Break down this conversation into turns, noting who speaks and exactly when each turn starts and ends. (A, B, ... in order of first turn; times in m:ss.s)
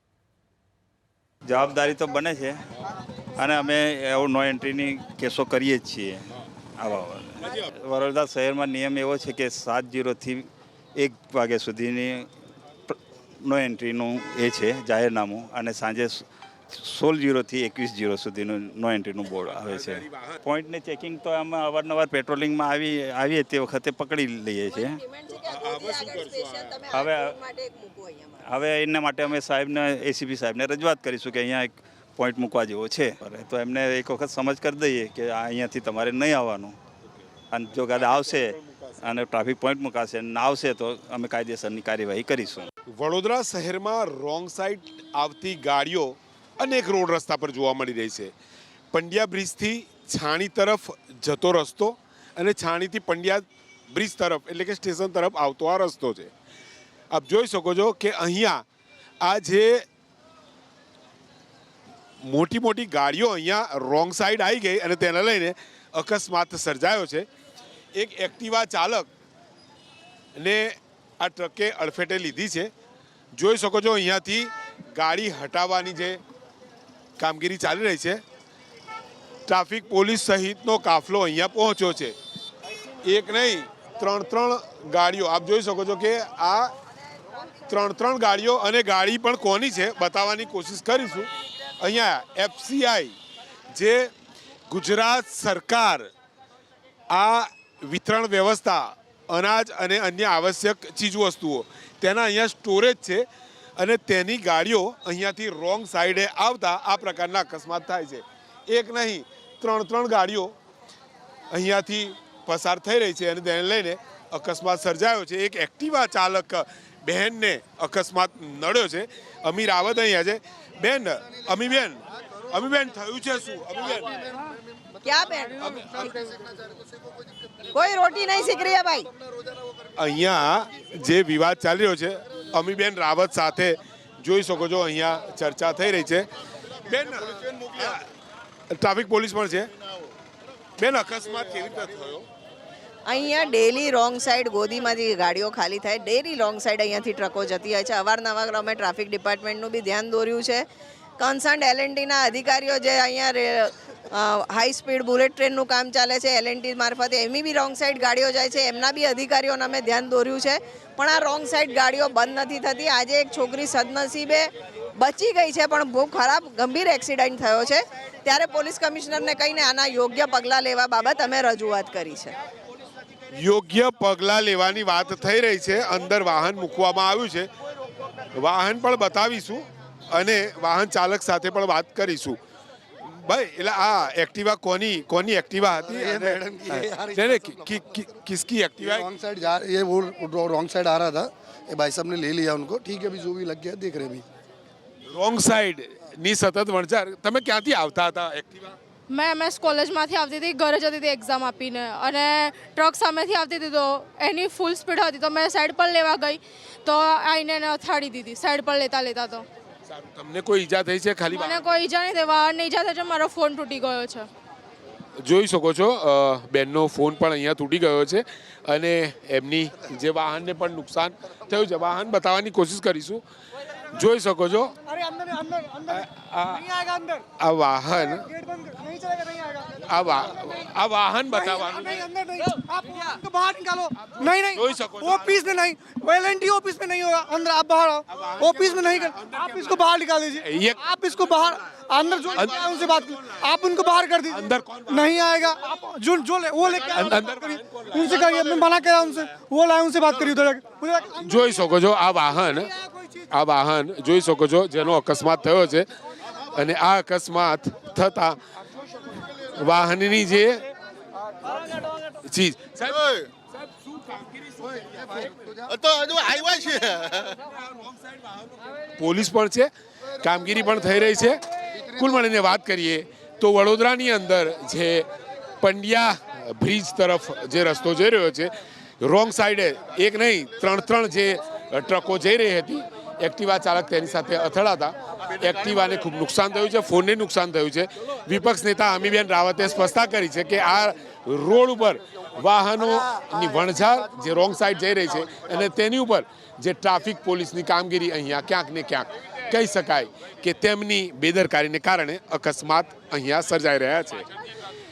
0:01.4-0:02.6 A
0:03.4-0:06.3 A
0:06.8-0:12.3 A
0:12.9-0:25.0 A
0:19.7-0:20.4 B
0:24.7-0:28.5 C
0:25.3-0:26.9 B
0:26.9-0:27.4 A
0:28.4-0:36.8 A
0:37.5-0:42.7 A
0:37.7-0:39.1 B
0:42.9-0:48.3 B
0:48.9-0:56.3 B
0:57.1-0:58.6 B
0:59.2-0:59.8 B
1:02.2-1:07.3 B
1:08.0-1:09.1 B
1:10.4-1:12.7 B
1:13.4-1:16.2 B
1:17.2-1:18.2 B
1:19.5-1:22.2 B
1:23.0-1:26.7 B
1:27.7-1:31.3 B
1:31.8-1:33.2 B
1:33.7-1:34.1 B
1:34.7-1:36.1 B
1:37.1-1:43.3 B
1:43.8-1:50.6 B
1:51.5-2:04.2 B
2:05.0-2:06.3 C
2:05.6-2:06.0 B
2:07.7-2:09.1 C
2:10.0-2:16.3 B
2:16.8-2:18.0 B
2:18.7-2:19.7 B
2:20.8-2:22.2 B
2:23.1-2:30.6 C
2:31.2-2:52.4 C
2:53.3-2:57.5 B
2:58.4-3:02.4 B
3:03.0-3:09.1 B
3:05.7-3:08.2 D
3:08.8-3:14.2 D
3:15.1-3:18.8 B
3:19.1-3:29.4 E
3:29.9-3:31.6 B
3:31.3-3:34.3 E
3:35.2-3:43.2 B
3:43.9-3:44.8 B
3:44.9-3:47.2 F
3:45.9-3:46.7 B
3:47.4-3:48.3 B
3:47.9-3:49.8 F
3:49.8-3:52.1 B
3:51.3-4:11.7 F
3:54.1-3:55.5 B
3:58.1-3:59.9 B
4:00.4-4:01.4 B
4:02.3-4:03.4 B
4:04.3-4:05.4 B
4:06.7-4:08.1 B
4:11.2-4:12.7 B
4:13.3-4:15.9 B
4:16.5-4:18.4 B
4:19.6-4:20.6 B
4:22.2-4:23.0 B
4:29.0-4:35.1 B
4:35.6-5:04.3 B